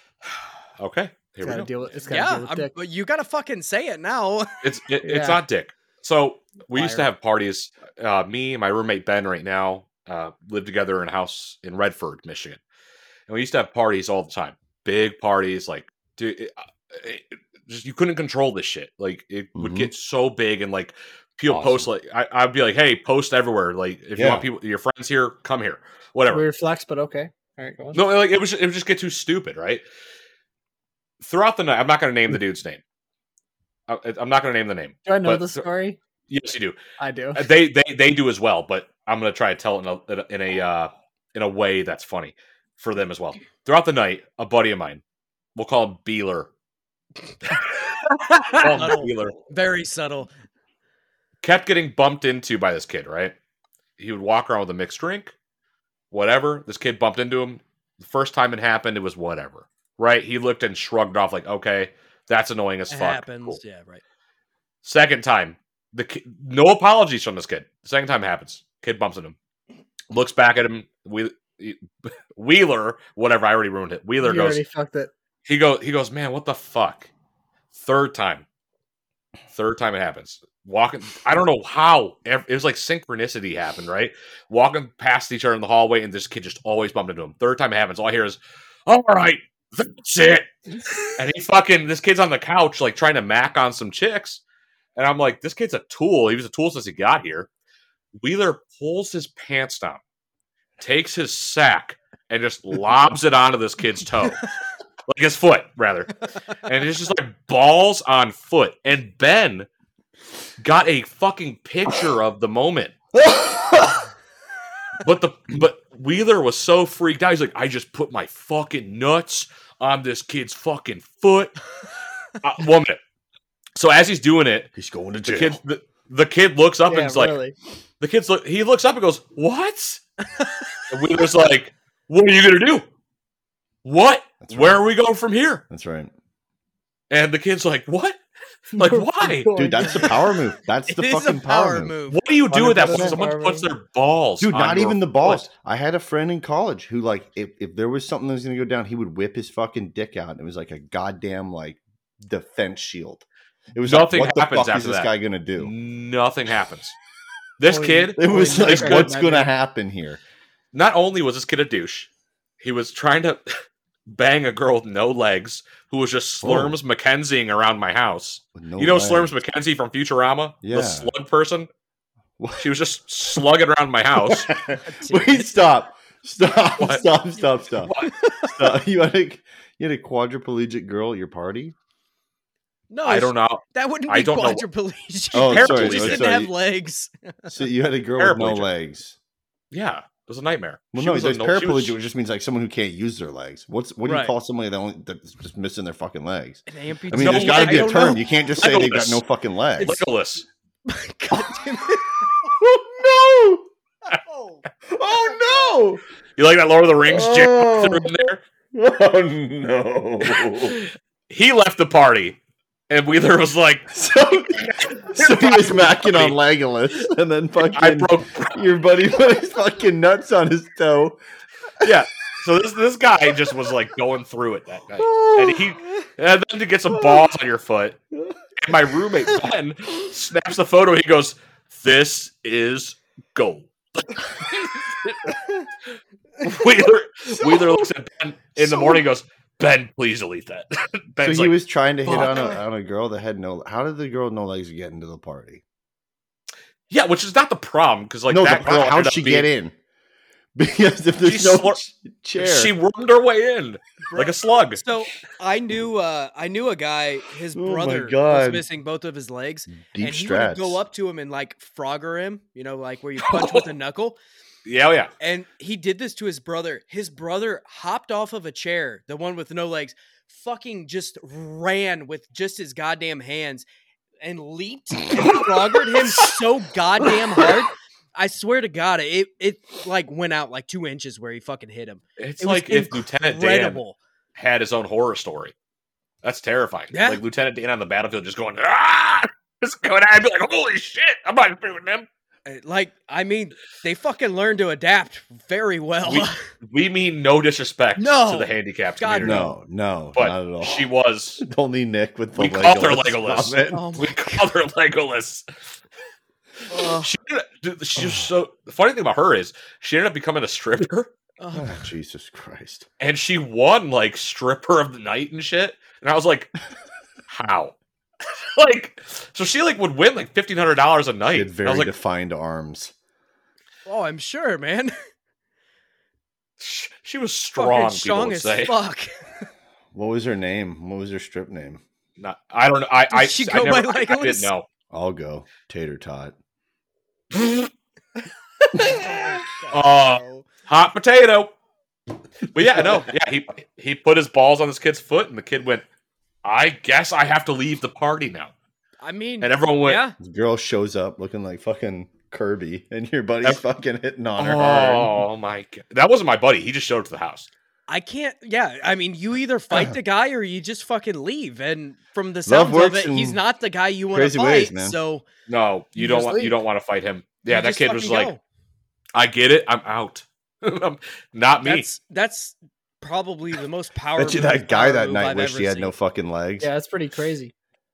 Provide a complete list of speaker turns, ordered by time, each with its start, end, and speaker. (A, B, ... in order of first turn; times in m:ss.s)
0:00.4-0:01.7 A
0:01.4-0:02.7 B
0:02.1-0:04.6 C
0:04.6-0:12.6 A
0:05.0-0:05.4 B
0:06.7-0:07.1 B
0:13.3-0:26.4 A
0:19.6-0:19.9 D
0:21.5-0:21.9 D
0:24.2-0:24.5 D
0:26.3-0:28.0 B
0:27.9-0:29.8 A
0:31.2-0:32.8 A
0:33.9-0:35.6 A
0:35.1-0:36.0 B
0:36.3-0:36.8 A
0:37.0-0:37.4 B
0:37.3-0:45.0 A
0:45.6-0:46.5 A
0:48.5-0:49.4 A
0:48.6-0:50.3 C
0:51.4-0:53.4 A
0:54.0-0:55.3 A
0:56.1-1:03.6 A
1:02.9-1:04.0 C
1:04.8-1:09.4 A
1:10.1-1:14.6 A
1:14.2-1:15.1 B
1:15.5-1:17.1 A
1:17.7-1:18.4 A
1:19.5-1:30.5 A
1:31.0-1:34.4 A
1:35.0-1:37.5 A
1:38.2-1:40.0 A
1:40.8-1:44.5 A
1:45.1-1:49.7 A
1:50.6-1:52.9 A
1:53.1-1:54.1 D
1:55.0-2:01.7 A
2:02.4-2:03.0 A
2:03.8-2:04.7 A
2:04.8-2:05.6 D
2:05.2-2:07.4 A
2:06.9-2:07.6 B
2:08.0-2:10.0 A
2:10.4-2:10.7 C
2:10.9-2:12.9 A
2:13.8-2:15.6 A
2:14.4-2:14.8 D
2:15.7-2:16.1 D
2:17.1-2:18.2 A
2:18.7-2:20.0 A
2:18.8-2:20.4 B
2:19.6-2:21.9 D
2:20.9-2:22.2 C
2:22.1-2:25.5 A
2:22.5-2:23.7 B
2:22.8-2:23.2 D
2:24.4-2:35.7 D
2:33.8-2:37.0 A
2:37.6-2:39.2 A
2:37.7-2:39.5 B
2:38.2-2:40.2 D
2:40.7-2:42.1 A
2:42.6-2:43.4 A
2:44.1-2:51.7 A
2:46.4-2:46.8 D
2:48.6-2:49.4 D
2:50.6-2:51.1 D
2:52.4-2:52.7 D
2:52.6-2:54.5 A
2:54.2-3:01.8 D
2:54.8-2:55.5 C
2:56.8-2:57.0 A
2:57.8-2:58.2 A
3:02.9-3:07.3 C
3:03.0-3:04.6 A
3:05.3-3:06.5 D
3:05.4-3:06.3 A
3:07.5-3:09.2 D
3:08.2-3:08.7 A
3:09.7-3:12.0 A
3:10.9-3:20.0 D
3:14.0-3:14.3 C
3:16.7-3:18.2 C
3:17.1-3:19.2 A
3:19.8-3:20.5 A
3:20.9-3:22.5 C
3:22.5-3:23.7 D
3:24.1-3:24.6 C
3:24.9-3:26.0 D
3:26.4-3:28.4 A
3:27.1-3:28.1 D
3:28.7-3:30.9 D
3:30.3-3:30.8 A
3:31.3-3:32.4 A
3:32.9-3:36.4 A
3:33.9-3:41.2 D
3:37.6-3:38.6 A
3:41.8-3:48.0 A
3:45.0-3:45.8 D
3:47.0-3:47.2 D
3:48.6-3:55.4 A
3:56.4-4:01.5 A
3:58.6-3:59.0 D
4:01.2-4:05.6 D
4:02.1-4:02.6 A
4:06.9-4:09.5 A
4:08.3-4:09.7 D
4:10.6-4:12.7 D
4:11.2-4:11.8 A
4:12.4-4:14.8 A
4:14.1-4:24.2 C
4:17.5-4:18.6 D
4:19.7-4:20.8 D
4:23.2-4:23.6 A
4:24.7-4:25.1 A
4:25.2-4:33.7 C
4:34.2-4:44.0 C
4:42.2-4:43.8 A
4:44.4-4:45.5 A
4:46.2-4:52.1 A
4:46.9-4:47.2 C
4:52.5-4:56.4 C
4:56.0-4:59.5 A
4:58.0-4:59.5 C
4:59.2-5:03.9 D
5:00.2-5:01.4 A
5:02.4-5:05.5 A
5:03.7-5:04.5 C
5:06.7-5:07.1 C
5:06.9-5:11.1 A
5:11.4-5:11.8 C
5:11.5-5:12.9 D
5:13.0-5:16.5 A
5:17.3-5:17.8 A
5:18.4-5:21.9 A
5:21.3-5:22.9 D
5:23.9-5:24.9 C
5:26.6-5:28.7 A
5:27.6-5:29.1 C
5:29.9-5:31.8 D
5:32.2-5:34.7 A
5:33.1-5:34.5 C
5:34.9-5:36.4 D
5:37.3-5:37.7 A
5:38.8-5:40.5 C
5:39.7-5:41.5 A
5:42.4-5:45.8 A
5:46.4-5:48.5 A
5:49.0-5:50.2 C
5:49.4-5:50.0 A
5:50.2-5:55.2 D
5:54.4-5:57.5 A
5:57.9-6:05.3 C
6:02.5-6:03.4 D
6:04.1-6:05.0 D
6:05.5-6:08.3 A
6:06.0-6:06.6 B
6:07.5-6:08.4 C
6:09.2-6:11.9 A
6:11.6-6:15.9 C
6:14.2-6:16.7 D
6:16.6-6:17.5 B